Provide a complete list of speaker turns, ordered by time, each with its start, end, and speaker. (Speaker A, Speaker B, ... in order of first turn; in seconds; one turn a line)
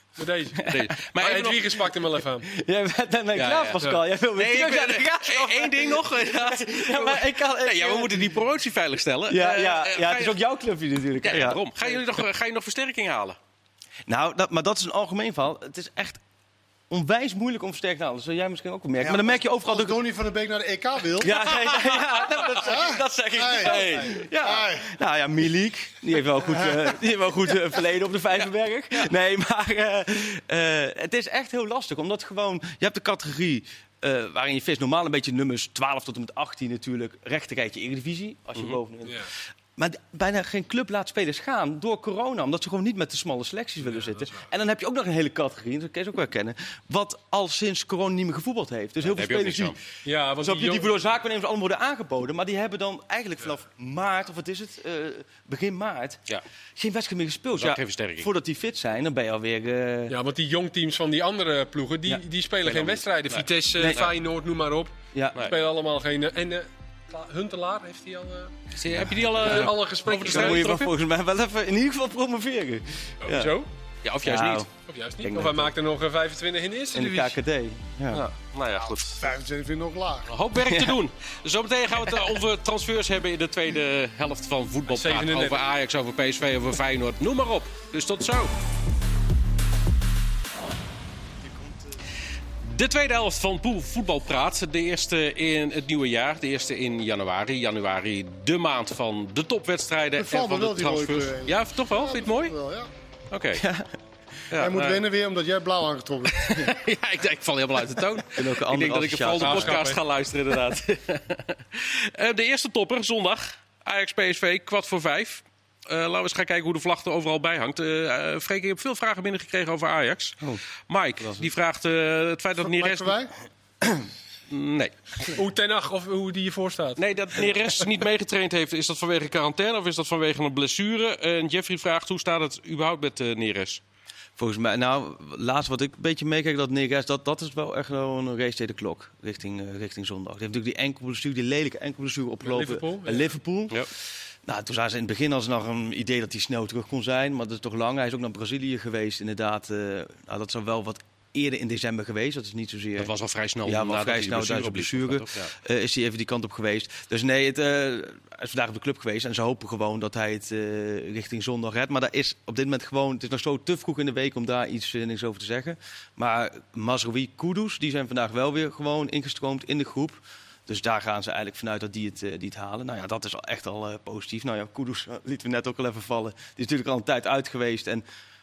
Speaker A: 0.2-0.6
Speaker B: 0.6-0.9
Speaker C: 0.7-1.8
Speaker A: 1.1-2.5
Speaker B: 2.5-8.4
Speaker C: 3.4-3.8
Speaker C: 4.3-10.4
Speaker B: 9.3-11.6
Speaker C: 11.2-13.4
Speaker B: 14.1-16.2
Speaker B: 16.9-20.0
Speaker D: 19.0-21.5
Speaker B: 21.2-49.8
Speaker D: 22.5-24.9
Speaker C: 23.6-24.2
Speaker D: 26.5-26.9
Speaker A: 39.0-39.3
Speaker A: 43.9-44.5
Speaker C: 49.0-49.8
Speaker A: 50.0-50.9
Speaker B: 50.4-56.2
Speaker B: 56.8-60.1
Speaker C: 57.6-58.3
Speaker A: 60.1-68.5
Speaker C: 63.3-64.1
Speaker B: 63.8-64.0
Speaker B: 65.1-65.5
Speaker C: 68.8-70.9
Speaker B: 69.0-73.6
Speaker A: 69.4-70.7
Speaker A: 73.2-73.7
Speaker C: 74.0-74.7
Speaker B: 74.2-74.7
Speaker A: 74.9-77.4
Speaker B: 75.2-75.7
Speaker B: 76.9-78.3
Speaker C: 78.1-79.3
Speaker D: 78.8-80.3
Speaker C: 80.3-88.5
Speaker B: 80.6-81.0
Speaker A: 84.9-85.6
Speaker C: 92.6-102.5
Speaker D: 100.2-102.9
Speaker C: 103.3-103.7
Speaker B: 103.6-103.9
Speaker C: 104.5-105.0
Speaker D: 104.5-106.7
Speaker C: 106.3-123.2
Speaker B: 108.3-109.8
Speaker A: 109.4-110.0
Speaker B: 121.2-121.5
Speaker D: 122.6-123.3
Speaker C: 124.5-124.9
Speaker A: 125.3-127.0
Speaker C: 127.0-133.8
Speaker B: 134.4-143.9
Speaker A: 142.4-143.3
Speaker B: 144.4-153.1
Speaker C: 153.0-155.5
Speaker B: 153.7-178.0